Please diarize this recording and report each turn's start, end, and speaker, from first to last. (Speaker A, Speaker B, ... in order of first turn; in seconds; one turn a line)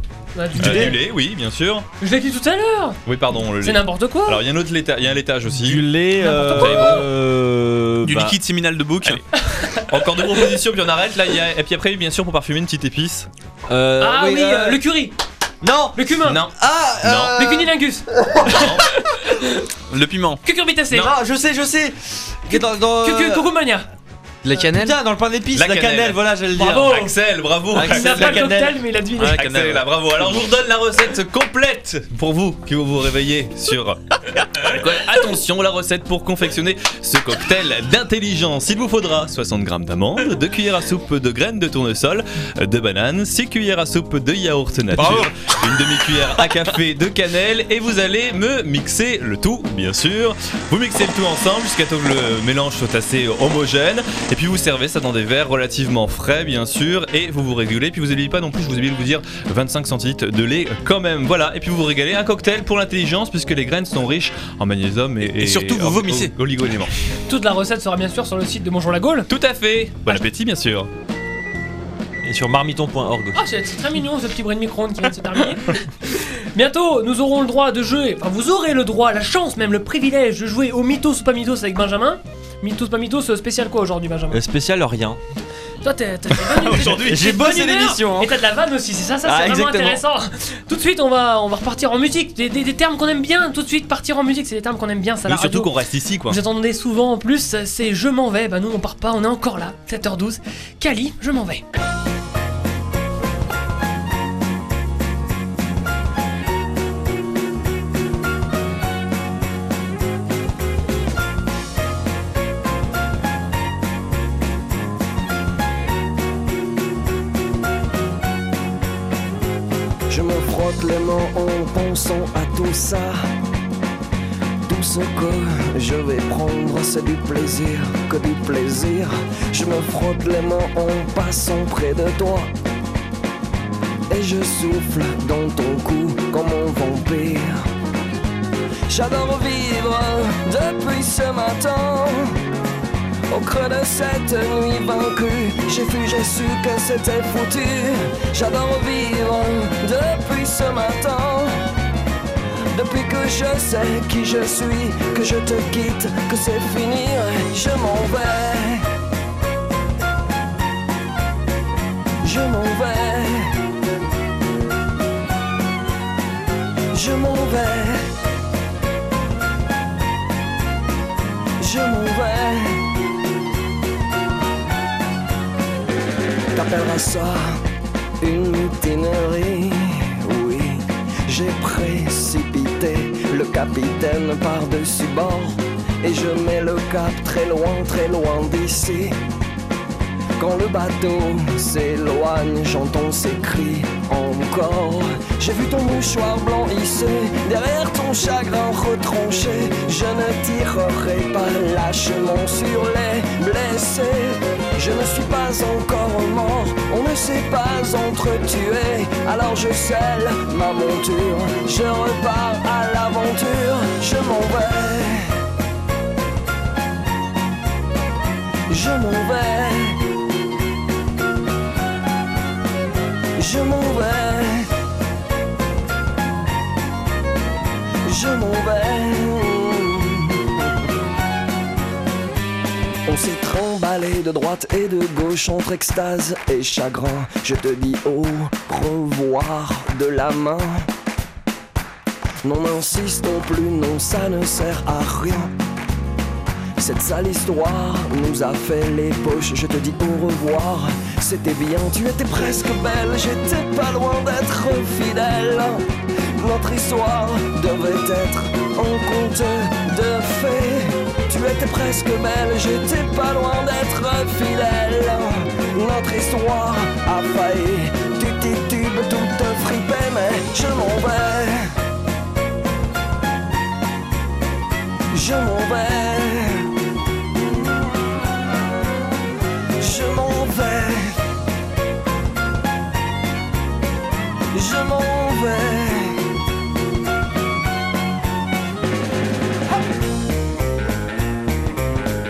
Speaker A: 0.4-1.0
Speaker B: 0.6-0.9
Speaker C: 0.6-1.9
Speaker A: 2.0-3.0
Speaker C: 3.0-5.9
Speaker A: 3.6-4.4
Speaker B: 5.5-8.4
Speaker A: 6.2-7.0
Speaker C: 6.5-7.1
Speaker D: 8.0-9.2
Speaker A: 9.5-9.8
Speaker C: 9.9-13.3
Speaker B: 13.7-14.8
Speaker A: 14.0-15.1
Speaker B: 15.6-16.0
Speaker A: 15.9-16.4
Speaker C: 16.2-17.5
Speaker B: 16.6-17.7
Speaker A: 17.4-18.0
Speaker C: 18.4-18.9
Speaker D: 19.9-20.4
Speaker A: 20.4-21.1
Speaker B: 20.9-23.5
Speaker A: 22.5-23.9
Speaker B: 24.4-27.1
Speaker D: 24.5-24.9
Speaker C: 25.5-28.5
Speaker A: 26.5-27.1
Speaker B: 27.7-28.8
Speaker A: 27.9-29.4
Speaker D: 29.2-29.8
Speaker C: 29.3-34.0
Speaker C: 34.6-66.9
Speaker D: 65.4-66.3
Speaker A: 67.3-69.3
Speaker C: 69.3-70.9
Speaker B: 72.2-73.4
Speaker A: 73.3-84.4
Speaker B: 84.3-85.2
Speaker A: 85.8-95.7
Speaker C: 86.6-87.2
Speaker B: 86.9-88.3
Speaker B: 89.2-90.0
Speaker C: 95.2-96.4
Speaker A: 96.3-101.6
Speaker E: 120.1-123.3
Speaker E: 124.7-132.5
Speaker E: 134.1-137.7
Speaker E: 138.9-142.4
Speaker E: 143.3-151.6
Speaker E: 152.7-158.9
Speaker E: 162.2-163.6
Speaker E: 166.9-168.1
Speaker E: 171.6-172.8
Speaker E: 176.5-177.6
Speaker E: 178.2-189.2
Speaker E: 190.4-215.4
Speaker E: 218.7-220.0
Speaker E: 223.4-224.7
Speaker E: 228.0-230.6
Speaker E: 233.1-240.9
Speaker E: 242.4-245.5
Speaker E: 246.8-255.8
Speaker E: 256.4-271.8
Speaker E: 275.1-276.7
Speaker E: 279.8-281.2
Speaker E: 284.5-286.2